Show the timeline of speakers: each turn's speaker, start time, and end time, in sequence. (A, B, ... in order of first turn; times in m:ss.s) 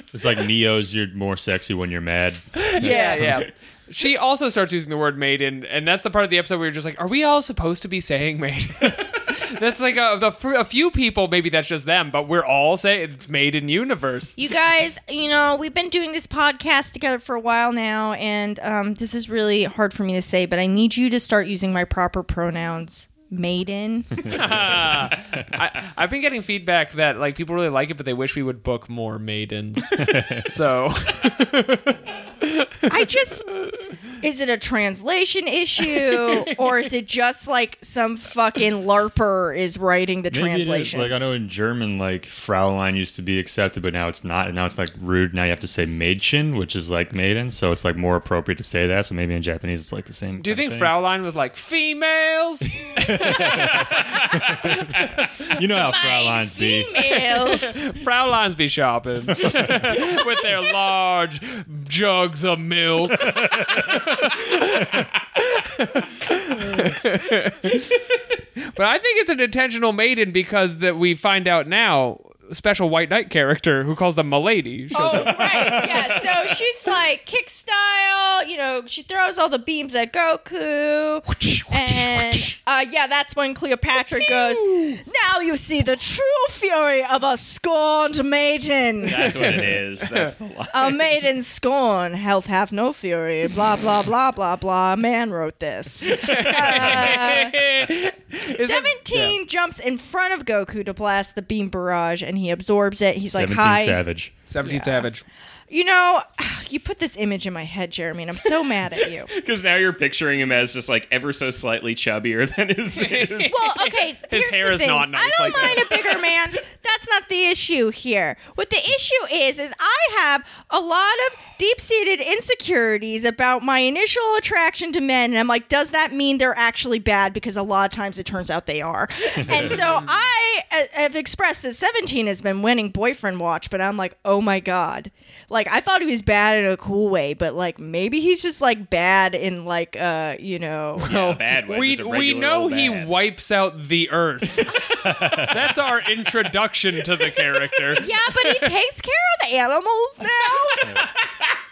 0:00.1-0:03.4 A
0:02.5-0:14.4 B
0:02.8-0:03.2 C
0:14.4-0:24.6 C
0:24.2-0:32.8 B
0:30.0-0:30.4 A
0:32.9-0:33.6 C
0:34.2-0:41.3 C
0:40.3-0:50.9 A
0:50.4-0:55.4 B
0:52.8-0:57.1 A
0:55.7-0:57.9 C
0:57.3-1:08.0 B
0:59.3-0:59.8 A
1:03.2-1:03.8 A
1:08.6-1:15.9 B
1:14.9-1:29.6 C
1:15.4-1:16.1 A
1:24.1-1:25.0 B
1:29.0-1:31.1 D
1:29.5-1:30.3 B
1:30.7-1:37.8 C
1:36.1-1:39.4 B
1:38.5-1:44.0 C
1:43.3-1:44.3 A
1:44.5-1:45.2 B
1:44.6-1:45.1 C
1:45.7-1:49.3 C
1:49.3-1:53.6 D
1:52.9-1:56.1 B
1:53.4-2:21.2 C
2:21.0-2:28.6 B
2:21.0-2:23.1 D
2:24.9-2:25.6 A
2:27.9-2:31.1 C